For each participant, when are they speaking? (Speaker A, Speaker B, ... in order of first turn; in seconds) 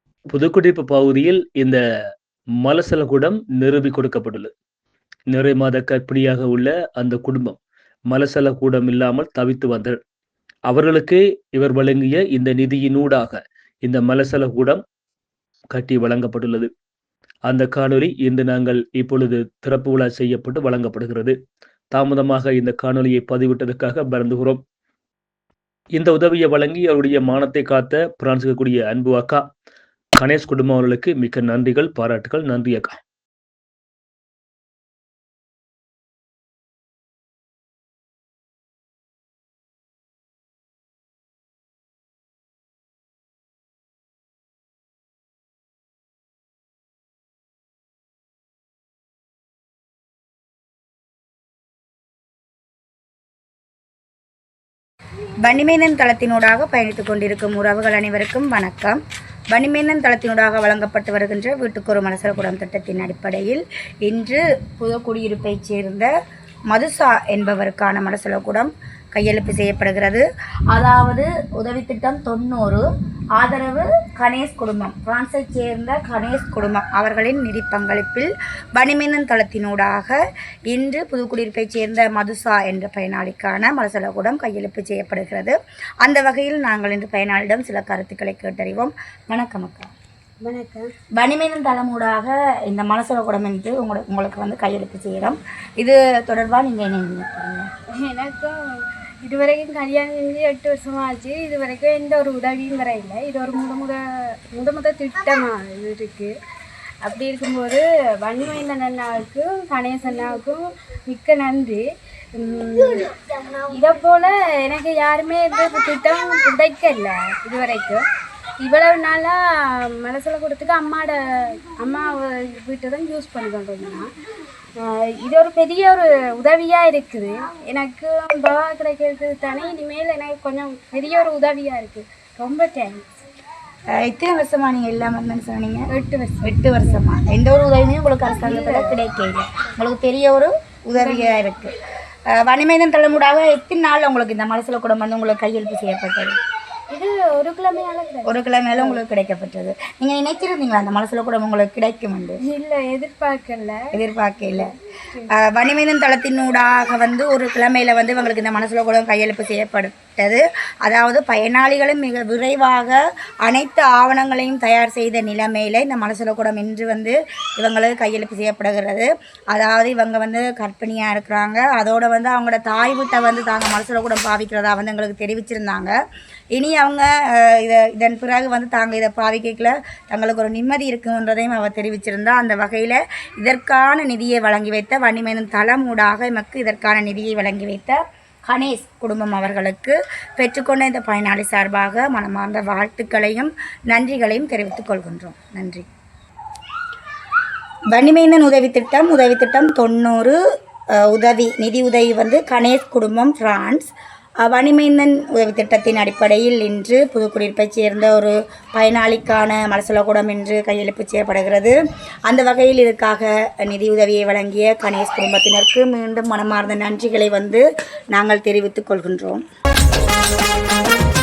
Speaker A: 0.3-1.8, 2.6-4.5, 5.3-7.6, 8.1-10.0, 10.7-14.8, 15.8-16.7, 17.5-21.4, 21.9-24.6, 26.0-29.4, 30.2-33.0
Speaker B: 55.4-59.0, 59.5-66.1, 66.7-72.8, 73.4-80.2, 80.7-89.9, 91.2-97.7, 134.0-135.9, 136.4-141.8, 142.3-146.4, 148.3-152.4, 153.9-154.7, 155.3-175.9, 176.5-195.9, 197.9-200.4, 201.0-211.8, 212.3-219.4
Speaker C: 90.4-90.9, 98.0-104.0, 104.5-106.3, 107.0-113.1, 113.7-118.0, 118.6-124.1, 124.8-133.1, 135.9-137.0, 138.4-138.9, 141.0-141.5, 146.9-149.0, 152.5-153.8, 154.5-155.3